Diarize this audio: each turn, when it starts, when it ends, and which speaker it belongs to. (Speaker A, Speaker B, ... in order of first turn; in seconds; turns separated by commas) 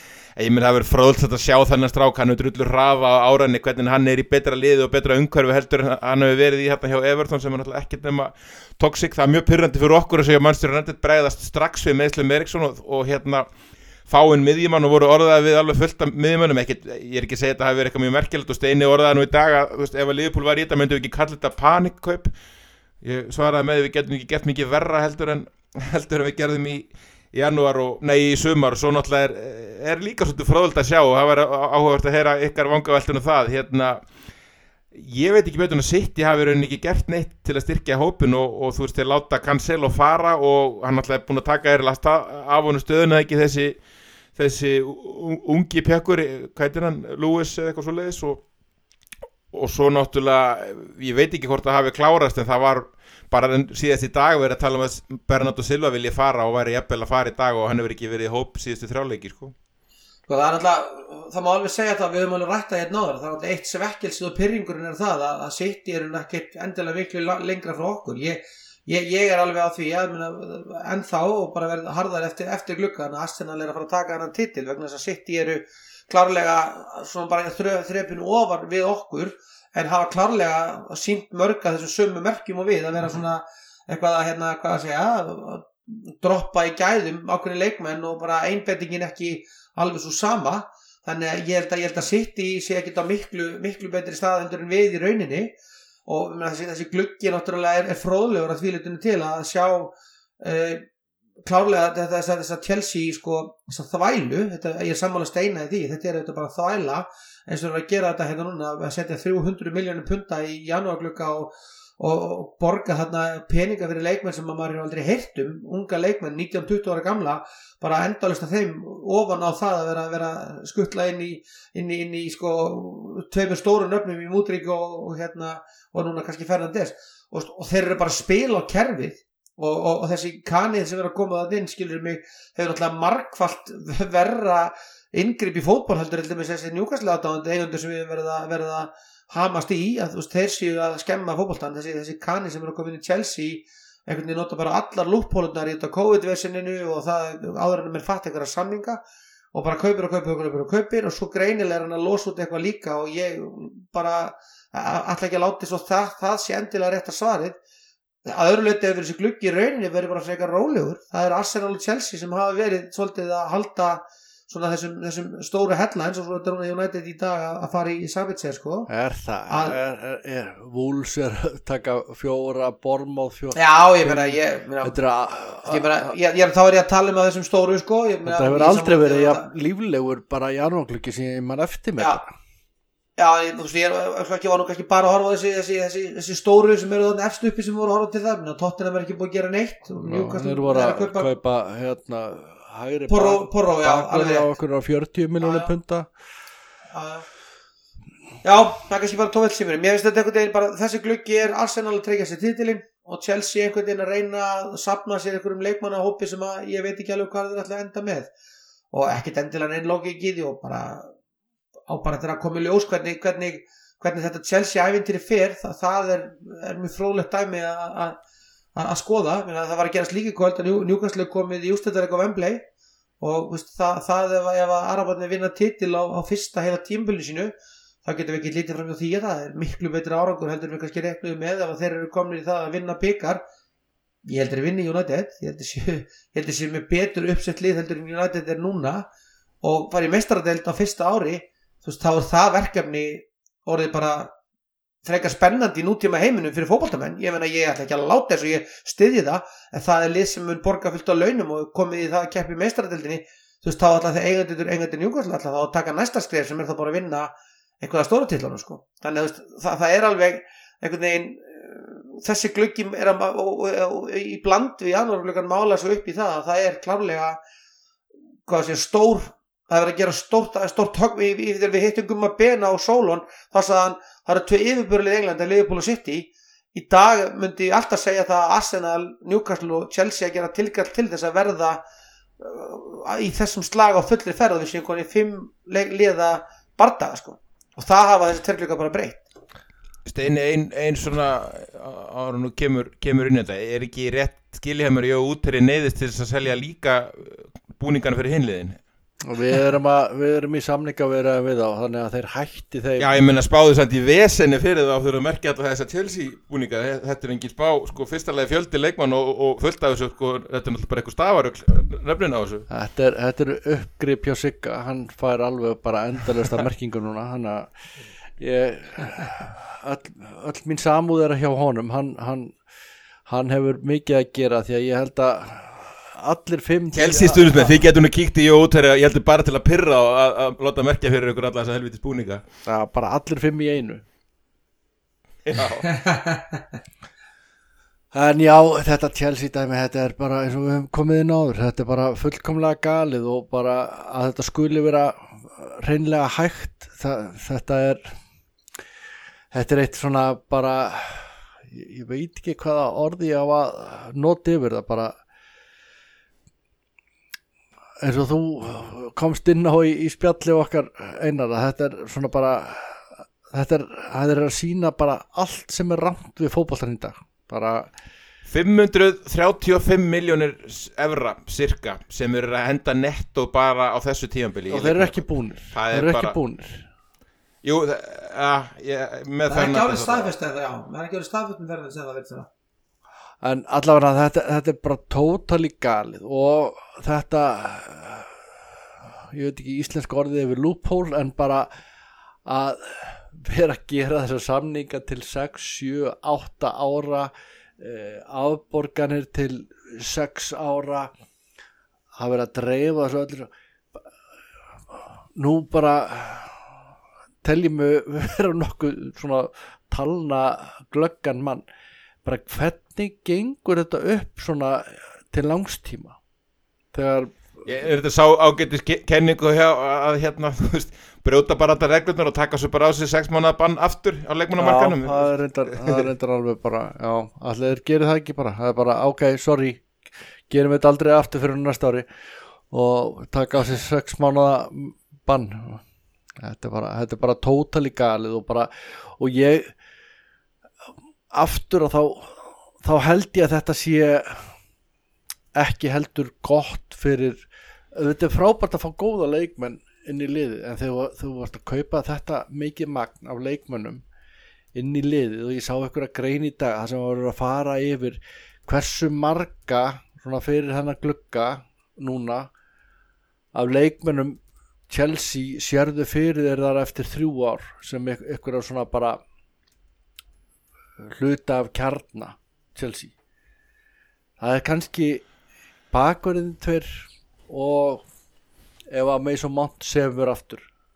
Speaker A: 0.4-13.5, Speaker A: 14.1-22.3, Speaker A: 23.0-34.0, Speaker A: 34.9-43.8, Speaker A: 44.4-48.4, Speaker A: 49.5-59.5, Speaker B: 60.3-95.5, Speaker B: 96.1-100.9, Speaker B: 101.5-149.0, Speaker B: 149.5-157.6, Speaker B: 158.3-168.9, Speaker C: 168.9-176.1, Speaker B: 169.5-169.8, Speaker B: 173.6-175.0, Speaker B: 175.6-179.5, Speaker C: 178.2-182.2, Speaker B: 183.2-191.3, Speaker C: 190.0-196.1, Speaker B: 193.1-194.5, Speaker B: 195.4-195.7, Speaker B: 196.9-197.3, Speaker B: 198.4-208.3, Speaker B: 208.9-211.1, Speaker B: 211.9-218.2, Speaker B: 218.8-222.7, Speaker B: 223.2-227.5, Speaker B: 228.1-233.4, Speaker B: 234.2-239.1, Speaker B: 239.6-244.3, Speaker B: 245.1-267.4, Speaker B: 268.5-281.8, Speaker B: 282.4-289.2, Speaker A: 290.1-298.8, Speaker C: 299.3-303.1, Speaker A: 303.0-312.7, Speaker C: 312.7-317.7, Speaker C: 318.4-322.6, Speaker C: 323.3-327.7, Speaker A: 326.9-332.4, Speaker C: 332.7-334.1, Speaker A: 335.5-335.9, Speaker B: 335.9-336.4, Speaker C: 338.1-348.1, Speaker C: 349.5-355.2, Speaker C: 358.0-367.9, Speaker A: 368.5-376.4, Speaker C: 374.7-376.9, Speaker A: 377.6-380.3, Speaker B: 379.5-382.5, Speaker C: 383.4-388.4, Speaker C: 389.0-391.7, Speaker C: 392.4-401.1, Speaker C: 402.2-403.5, Speaker C: 404.9-406.8, Speaker C: 407.4-411.6, Speaker C: 412.2-416.2, Speaker C: 416.9-417.4, Speaker A: 417.6-426.0, Speaker C: 424.6-429.9, Speaker C: 430.5-432.1, Speaker C: 432.7-435.8, Speaker C: 436.4-439.8, Speaker C: 441.3-444.6, Speaker C: 445.5-454.0, Speaker C: 454.7-462.5, Speaker C: 463.5-469.2, Speaker C: 471.0-473.1, Speaker C: 474.4-475.3, Speaker C: 475.9-478.1, Speaker C: 478.9-480.7